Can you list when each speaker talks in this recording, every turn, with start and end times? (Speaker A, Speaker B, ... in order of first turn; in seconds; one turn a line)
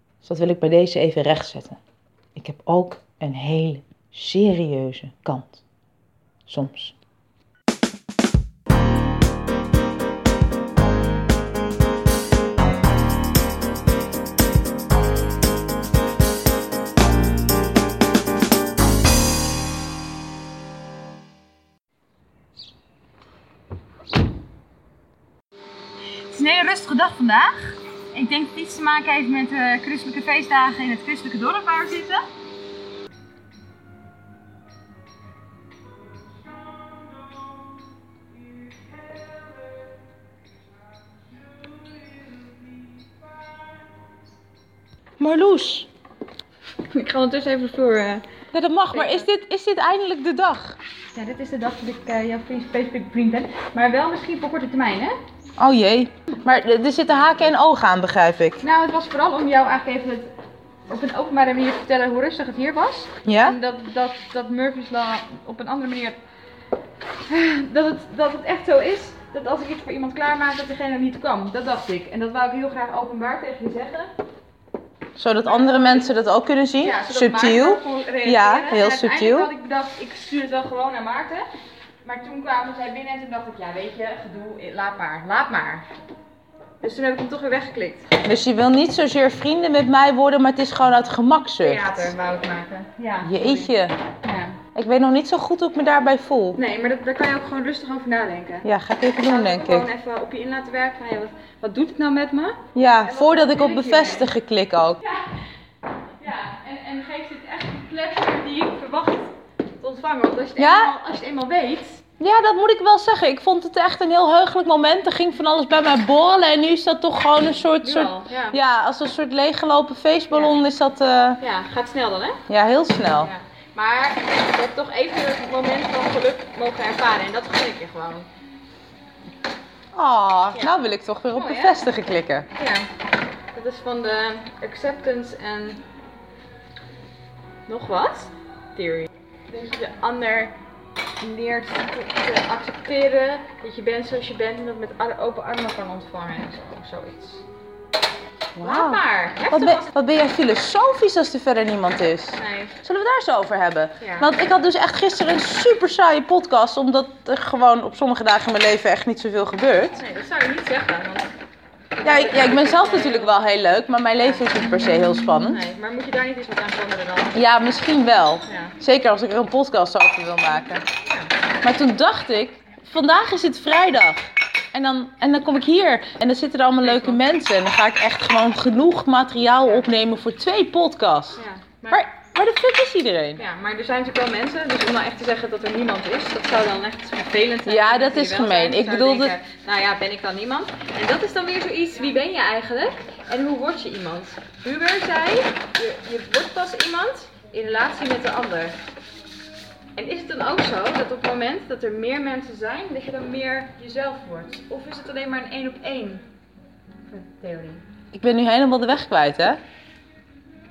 Speaker A: 0.2-1.8
Speaker A: 2.4-5.6
Speaker A: 6.5-7.0
Speaker B: 26.3-32.2
Speaker A: 45.2-45.9
Speaker B: 46.9-48.2
Speaker A: 48.5-50.8
Speaker B: 48.9-49.2
Speaker B: 51.1-55.1
Speaker A: 55.6-58.6
Speaker B: 58.6-60.3
Speaker B: 60.9-66.2
Speaker A: 63.2-63.6
Speaker B: 67.3-74.1
Speaker A: 75.2-79.5
Speaker B: 76.8-81.5
Speaker B: 82.0-85.8
Speaker B: 86.8-88.0
Speaker A: 88.2-92.1
Speaker B: 91.7-93.7
Speaker A: 93.2-94.0
Speaker B: 94.2-94.5
Speaker A: 94.8-96.6
Speaker B: 96.6-98.7
Speaker A: 98.6-99.9
Speaker B: 99.3-102.5
Speaker A: 102.8-105.0
Speaker B: 103.0-104.3
Speaker B: 106.2-112.0
Speaker A: 110.6-110.9
Speaker A: 112.2-121.4
Speaker B: 117.8-118.6
Speaker B: 121.4-122.4
Speaker A: 122.5-123.3
Speaker B: 123.2-128.3
Speaker A: 129.9-132.5
Speaker B: 131.3-131.7
Speaker B: 132.6-132.9
Speaker B: 133.6-135.8
Speaker B: 137.7-140.5
Speaker B: 141.2-147.4
Speaker A: 148.6-160.0
Speaker B: 148.6-149.9
Speaker B: 152.4-152.7
Speaker B: 160.0-161.3
Speaker B: 162.0-163.2
Speaker A: 162.0-165.6
Speaker B: 165.5-167.3
Speaker A: 167.3-170.8
Speaker B: 168.5-168.7
Speaker B: 171.1-171.3
Speaker A: 171.6-181.4
Speaker B: 176.9-177.2
Speaker B: 181.4-182.0
Speaker A: 181.9-183.4
Speaker B: 183.4-198.7
Speaker A: 187.7-189.3
Speaker B: 200.0-206.2
Speaker B: 207.1-207.8
Speaker A: 208.1-209.6